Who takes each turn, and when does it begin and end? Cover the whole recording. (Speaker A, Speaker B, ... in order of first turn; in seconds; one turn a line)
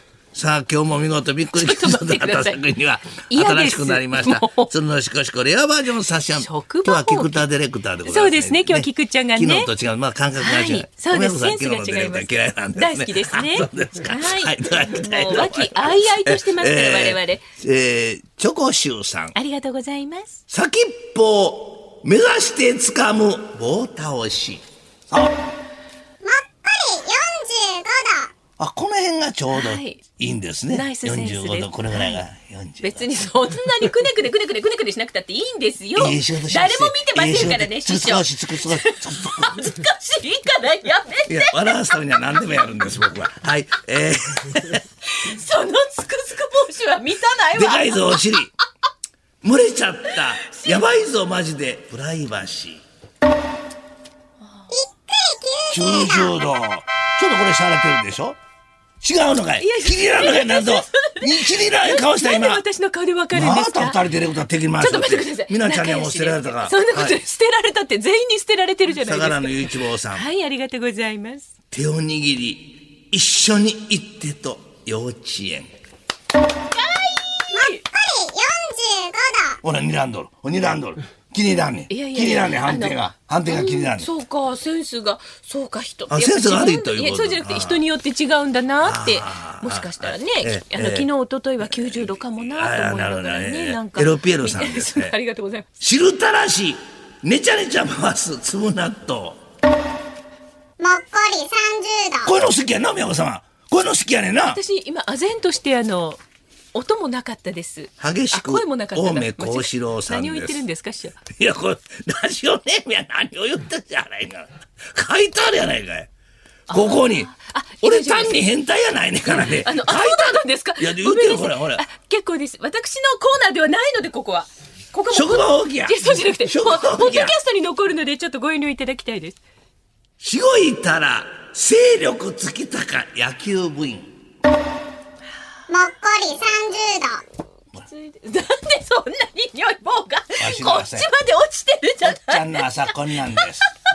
Speaker A: 0.3-19.3
Speaker B: 1.5-2.6
Speaker B: 3.2-4.7
Speaker B: 6.3-7.4
Speaker B: 8.0-9.7
Speaker B: 10.4-17.4
Speaker B: 19.3-20.4
Speaker A: 20.5-25.3
Speaker C: 26.2-28.3
Speaker A: 28.6-33.1
Speaker B: 29.5-30.0
Speaker B: 30.7-32.2
Speaker B: 32.8-41.5
Speaker A: 36.0-39.7
Speaker A: 41.3-44.8
Speaker B: 44.7-48.5
Speaker A: 47.5-48.5
Speaker A: 49.4-52.8
Speaker B: 50.4-50.8
Speaker C: 54.7-56.2
Speaker A: 55.7-58.4
Speaker A: 59.0-62.6
Speaker B: 59.6-64.0
Speaker A: 63.3-67.2
Speaker B: 64.8-71.5
Speaker A: 69.0-70.3
Speaker A: 71.7-75.7
Speaker B: 76.7-77.8
Speaker C: 77.5-79.6
Speaker A: 79.6-84.1
Speaker B: 81.9-95.7
Speaker A: 86.1-87.8
Speaker A: 88.8-91.1
Speaker A: 91.6-95.2
Speaker A: 95.8-99.4
Speaker C: 100.8-102.3
Speaker A: 102.2-104.6
Speaker B: 104.4-106.2
Speaker B: 106.7-111.2
Speaker A: 108.0-110.6
Speaker A: 111.3-116.1
Speaker A: 116.7-117.3
Speaker B: 116.7-118.4
Speaker A: 117.8-121.8
Speaker B: 119.3-129.4
Speaker A: 125.1-127.3
Speaker A: 130.2-134.1
Speaker C: 135.7-137.2
Speaker B: 137.8-143.5
Speaker A: 140.4-141.1
Speaker A: 142.0-143.6